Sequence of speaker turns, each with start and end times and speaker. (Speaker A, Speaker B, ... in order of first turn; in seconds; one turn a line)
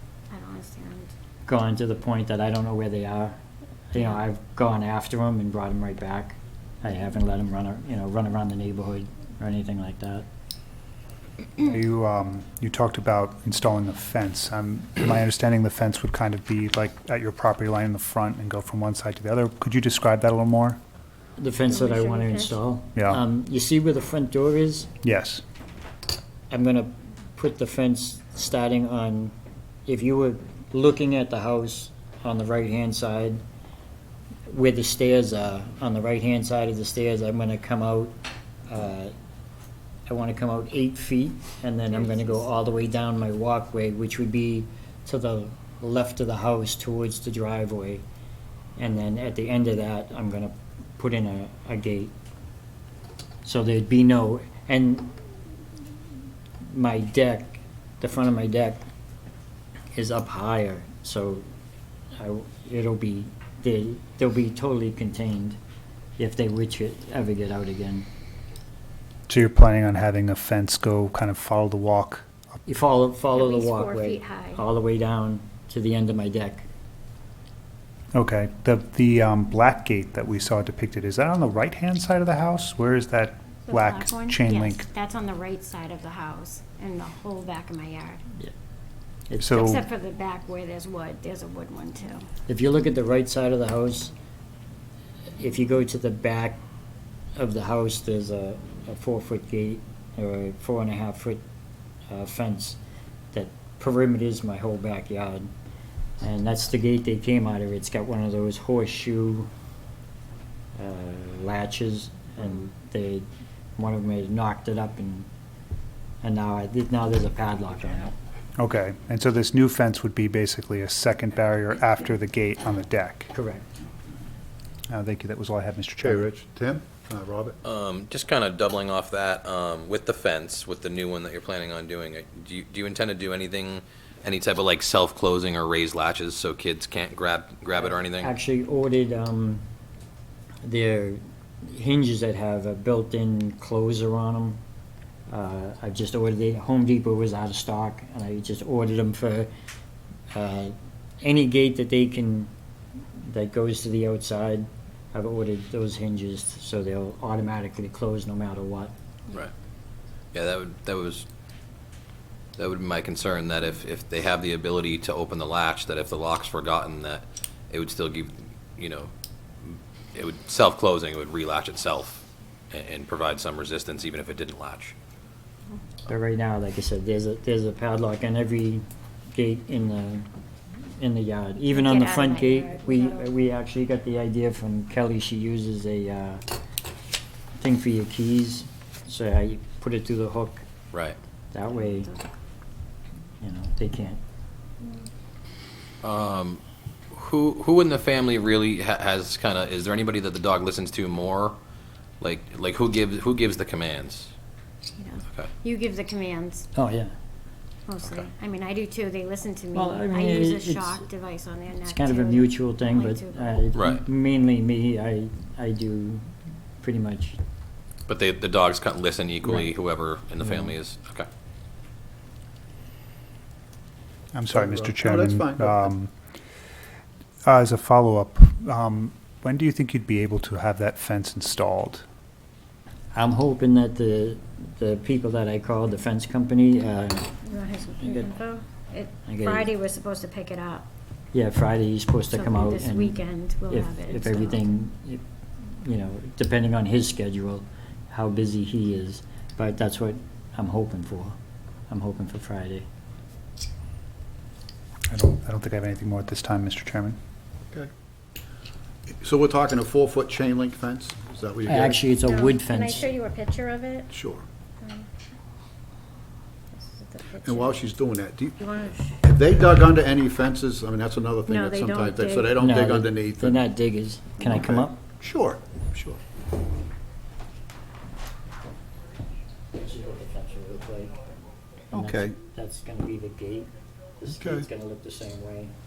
Speaker A: 0.3-1.1
Speaker B: 1.4-3.4
Speaker B: 3.9-10.2
Speaker A: 3.9-4.2
Speaker C: 11.6-20.8
Speaker B: 21.4-24.9
Speaker A: 21.7-22.6
Speaker C: 22.9-23.2
Speaker C: 25.0-25.4
Speaker B: 26.5-29.3
Speaker B: 29.9-33.4
Speaker B: 34.5-38.1
Speaker B: 38.7-39.1
Speaker B: 40.1-48.0
Speaker A: 41.8-42.8
Speaker B: 48.8-52.1
Speaker B: 53.4-55.1
Speaker B: 56.6-58.8
Speaker B: 59.9-61.4
Speaker B: 62.1-65.6
Speaker B: 66.2-68.1
Speaker C: 69.3-72.3
Speaker B: 72.7-76.7
Speaker A: 73.3-74.6
Speaker C: 78.1-84.8
Speaker A: 83.7-88.2
Speaker C: 89.4-89.8
Speaker A: 89.5-92.3
Speaker B: 92.5-94.1
Speaker B: 95.4-96.6
Speaker B: 97.3-101.4
Speaker B: 102.1-102.8
Speaker B: 103.3-105.5
Speaker B: 106.2-109.5
Speaker B: 110.8-113.2
Speaker B: 113.8-115.3
Speaker B: 116.2-118.1
Speaker C: 118.6-123.3
Speaker B: 123.3-123.7
Speaker C: 124.9-126.3
Speaker D: 126.0-127.5
Speaker E: 127.6-138.3
Speaker B: 138.1-139.6
Speaker B: 140.6-144.6
Speaker B: 145.3-149.5
Speaker B: 150.3-152.5
Speaker B: 153.2-158.9
Speaker E: 160.3-161.2
Speaker E: 162.6-169.1
Speaker E: 169.6-174.9
Speaker B: 176.1-180.3
Speaker B: 181.0-186.6
Speaker A: 181.7-183.3
Speaker B: 187.6-190.6
Speaker E: 190.9-191.2
Speaker B: 191.5-192.1
Speaker A: 191.7-192.3
Speaker B: 193.4-194.2
Speaker E: 196.0-201.6
Speaker E: 202.2-204.3
Speaker A: 204.9-206.7
Speaker B: 206.7-207.1
Speaker A: 207.9-213.6
Speaker B: 209.7-211.0
Speaker B: 211.8-216.2
Speaker E: 213.7-214.0
Speaker B: 216.8-217.4
Speaker E: 218.1-221.3
Speaker C: 224.3-226.1
Speaker D: 224.5-225.9
Speaker C: 227.4-232.0
Speaker B: 233.1-237.3
Speaker A: 237.4-240.9
Speaker B: 239.3-239.7
Speaker B: 241.3-251.3
Speaker A: 242.3-244.6
Speaker B: 251.9-252.8
Speaker C: 255.1-257.2
Speaker D: 259.1-262.1
Speaker B: 261.7-263.1
Speaker A: 262.2-264.1
Speaker D: 264.1-264.4
Speaker A: 264.8-265.1
Speaker A: 266.7-267.8
Speaker D: 267.4-268.6
Speaker A: 268.6-269.2
Speaker D: 269.2-273.6
Speaker A: 271.5-272.6
Speaker B: 272.5-275.0
Speaker D: 274.4-276.2
Speaker B: 279.7-281.2
Speaker B: 281.9-285.7
Speaker D: 281.9-282.4
Speaker D: 284.3-284.7